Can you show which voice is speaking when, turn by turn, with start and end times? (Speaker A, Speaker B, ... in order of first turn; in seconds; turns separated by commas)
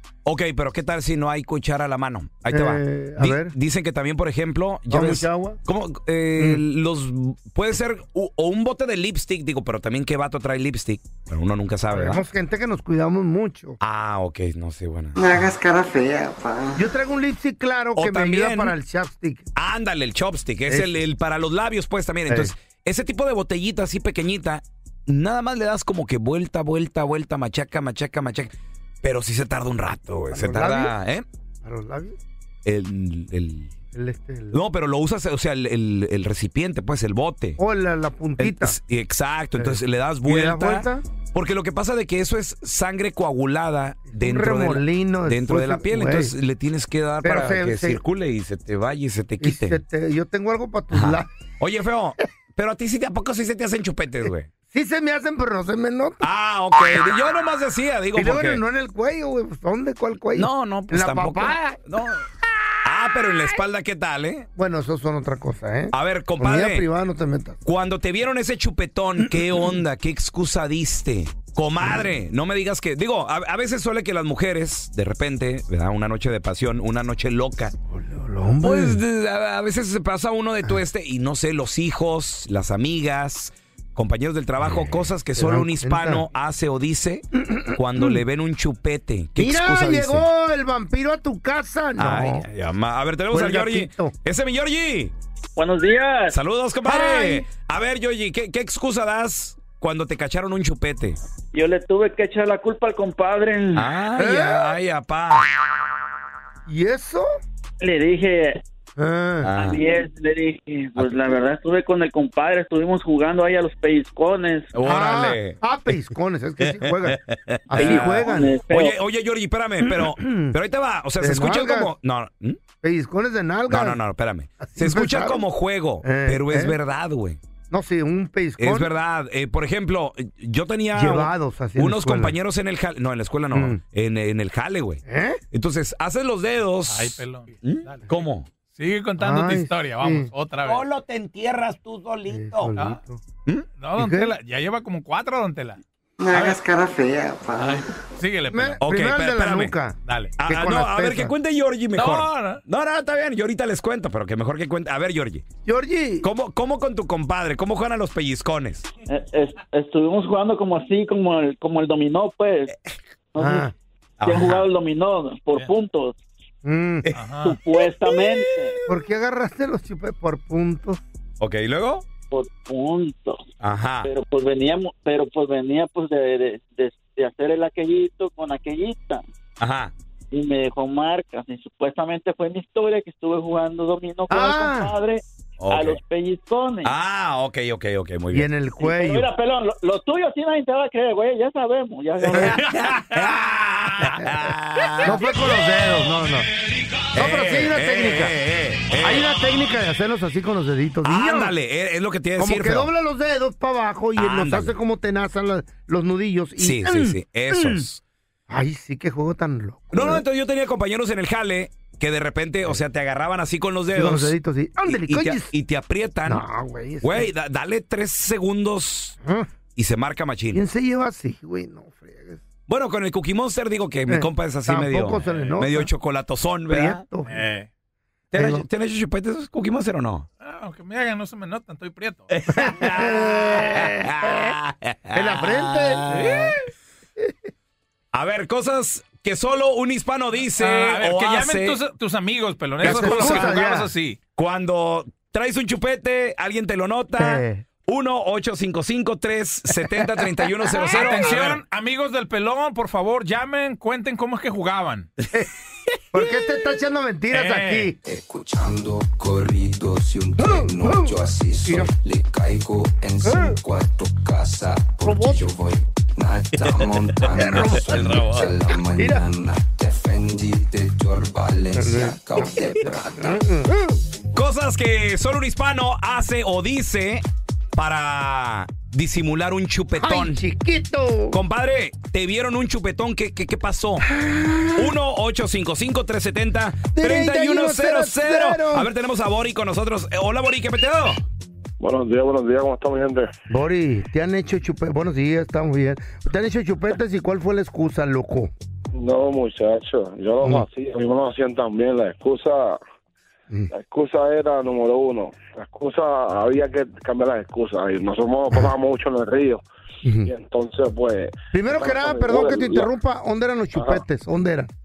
Speaker A: 0.2-12.2, Speaker B: 2.5-3.5, Speaker B: 4.9-5.6, Speaker B: 11.9-13.8, Speaker A: 13.8-15.2, Speaker C: 15.2-16.9, Speaker B: 16.8-19.5, Speaker A: 18.0-18.7, Speaker A: 19.6-28.5, Speaker B: 22.3-22.5, Speaker A: 29.0-31.2, Speaker B: 30.3-30.9, Speaker B: 31.6-32.2, Speaker A: 32.6-33.7, Speaker B: 33.9-34.6, Speaker A: 34.5-37.6, Speaker B: 37.6-38.8, Speaker A: 38.4-49.8, Speaker B: 39.6-41.0, Speaker B: 44.1-46.3, Speaker B: 47.2-48.0, Speaker B: 49.4-51.3, Speaker A: 50.9-54.5, Speaker B: 54.7-56.2, Speaker A: 56.2-58.6, Speaker B: 58.1-61.8, Speaker A: 60.4-62.2, Speaker A: 62.9-64.5, Speaker B: 64.6-67.6, Speaker A: 65.9-66.8, Speaker A: 67.7-77.7, Speaker B: 69.3-69.8, Speaker B: 77.9-79.0, Speaker A: 78.6-90.3, Speaker B: 84.6-86.3, Speaker B: 87.4-88.2, Speaker B: 89.4-92.5, Speaker A: 92.0-95.1, Speaker B: 93.3-94.1, Speaker D: 95.6-96.4, Speaker A: 96.3-101.2, Speaker B: 96.8-97.4, Speaker D: 101.5-103.8, Speaker A: 103.8-105.5, Speaker B: 104.2-104.7, Speaker B: 106.7-107.3, Speaker D: 107.8-108.6, Speaker B: 109.0-109.5, Speaker A: 109.5-109.8, Speaker D: 109.5-114.7, Speaker A: 111.0-111.3, Speaker A: 114.7-115.6, Speaker B: 114.8-117.2, Speaker A: 116.6-122.6, Speaker B: 117.7-118.6, Speaker D: 117.8-119.0, Speaker B: 119.9-120.6, Speaker B: 121.2-121.9, Speaker B: 122.8-124.0, Speaker A: 123.7-127.4, Speaker B: 124.6-125.5, Speaker B: 126.0-126.8, Speaker B: 127.7-128.9, Speaker A: 128.6-138.5, Speaker B: 130.9-132.3, Speaker B: 133.5-133.8, Speaker B: 135.1-135.4, Speaker E: 136.9-138.2, Speaker E: 138.8-140.8, Speaker B: 139.2-140.3, Speaker A: 140.6-142.7, Speaker B: 142.3-143.2, Speaker E: 143.8-145.8, Speaker B: 144.0-144.3, Speaker C: 146.2-147.8, Speaker E: 147.6-148.8, Speaker B: 148.5-151.3, Speaker A: 148.8-149.7, Speaker E: 150.1-150.4, Speaker A: 150.4-155.4, Speaker E: 152.0-152.6, Speaker B: 155.7-156.3, Speaker A: 156.2-158.9, Speaker D: 159.1-162.7, Speaker D: 163.3-163.7, Speaker B: 163.4-163.7, Speaker A: 164.2-164.6, Speaker D: 164.2-166.2, Speaker B: 166.7-167.1, Speaker E: 167.1-167.6, Speaker D: 167.4-168.8, Speaker B: 168.9-171.0, Speaker A: 171.4-172.0, Speaker D: 172.3-173.4, Speaker A: 173.6-174.1, Speaker D: 174.0-179.2, Speaker A: 179.6-179.9, Speaker D: 180.3-186.9, Speaker B: 184.3-184.9, Speaker A: 185.6-186.0, Speaker A: 186.8-188.5, Speaker B: 188.3-189.3, Speaker D: 188.8-192.6, Speaker A: 192.2-195.2, Speaker B: 195.0-196.5, Speaker B: 197.1-198.3, Speaker A: 197.2-199.3, Speaker B: 198.9-201.5, Speaker A: 201.0-202.9, Speaker B: 202.4-207.8, Speaker A: 204.2-204.7, Speaker A: 206.6-208.0, Speaker B: 208.5-210.2, Speaker A: 209.9-214.3, Speaker B: 213.9-215.5, Speaker A: 214.9-216.4, Speaker B: 216.3-217.3, Speaker A: 217.0-219.2, Speaker B: 219.2-219.5, Speaker A: 219.8-220.6, Speaker B: 220.5-222.4, Speaker A: 222.7-227.0, Speaker B: 224.1-225.9, Speaker B: 226.7-227.4, Speaker E: 227.3-227.7, Speaker A: 228.3-230.3, Speaker B: 228.3-228.7, Speaker E: 230.4-232.3, Speaker A: 232.3-236.5, Speaker B: 232.6-234.5, Speaker B: 235.1-236.2, Speaker E: 236.1-236.5, Speaker A: 238.1-241.8, Speaker E: 240.6-244.2, Speaker A: 242.8-243.5, Speaker B: 242.8-243.9, Speaker A: 244.4-251.6, Speaker B: 247.2-247.6, Speaker E: 250.8-255.1, Speaker B: 256.1-258.0, Speaker E: 257.3-257.9, Speaker F: 258.0-273.5, Speaker B: 260.4-261.1, Speaker B: 261.7-261.9, Speaker B: 263.2-263.6, Speaker B: 265.0-265.4, Speaker A: 266.6-268.5, Speaker B: 267.3-267.9, Speaker B: 269.0-269.2, Speaker B: 271.7-274.0, Speaker A: 274.4-277.2, Speaker A: 277.8-280.4, Speaker B: 280.0-281.4, Speaker A: 281.3-284.1, Speaker B: 284.0-284.9, Speaker A: 284.8-291.2, Speaker B: 286.9-288.9, Speaker G: 291.8-293.3, Speaker B: 293.5-298.5, Speaker G: 298.9-302.8, Speaker B: 300.4-300.7, Speaker G: 303.7-309.6, Speaker B: 310.1-310.3, Speaker G: 310.2-312.9, Speaker B: 311.5-314.7, Speaker G: 313.8-314.1